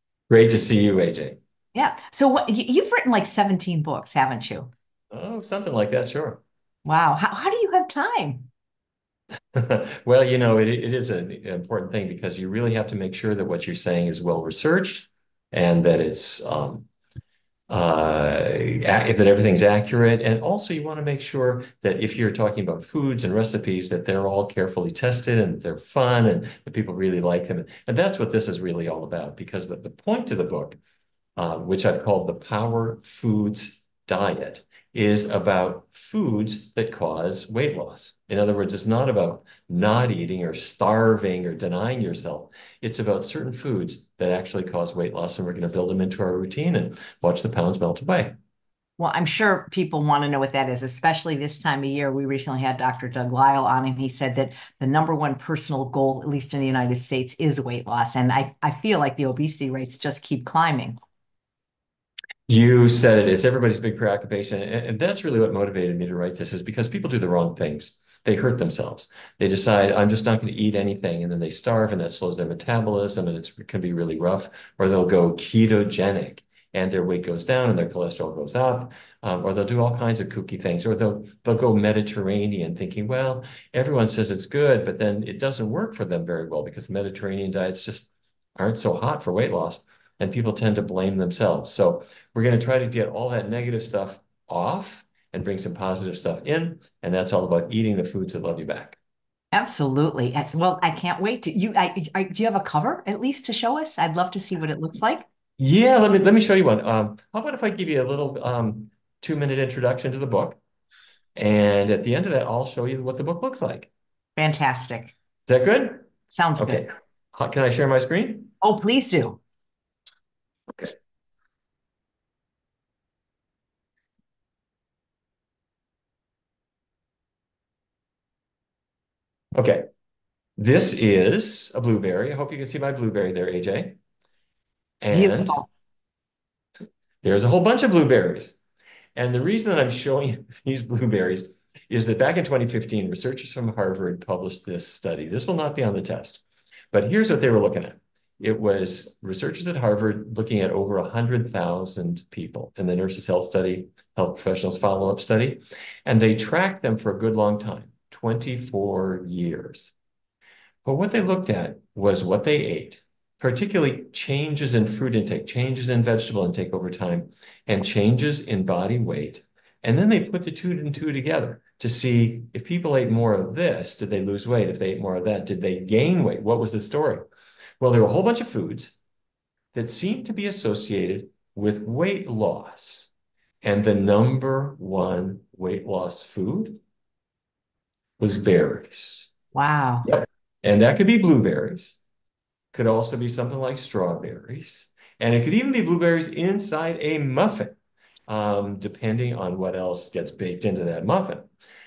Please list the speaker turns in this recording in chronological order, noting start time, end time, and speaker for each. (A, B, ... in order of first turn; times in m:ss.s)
0:00.3-0:01.4 A
0:01.7-0:04.7 B
0:05.1-0:06.4 A
0:06.8-0:08.5 B
0:09.5-0:16.9 A
0:17.7-0:30.8 A
0:31.4-0:48.3 A
0:49.0-1:01.0 B
1:02.5-1:39.0 A
1:39.5-1:45.3 B
1:45.6-1:50.6 A
1:51.4-1:53.9 A
1:54.4-1:55.1 B
1:55.5-1:58.5 A
1:56.3-1:56.9 B
1:58.6-1:59.4 B
2:09.6-2:09.9 A
2:10.6-2:14.0 A
2:15.0-2:15.6 A
2:15.1-2:15.7 B
2:17.2-2:18.6 A
2:19.2-2:39.9 A
2:40.8-2:57.2 A
2:57.8-2:59.0 A
2:59.7-3:03.1 A
3:03.6-3:06.8 A
3:08.2-3:09.3 A
3:09.5-3:10.1 B
3:10.0-3:12.0 A
3:12.7-3:17.8 A
3:18.3-3:21.5 A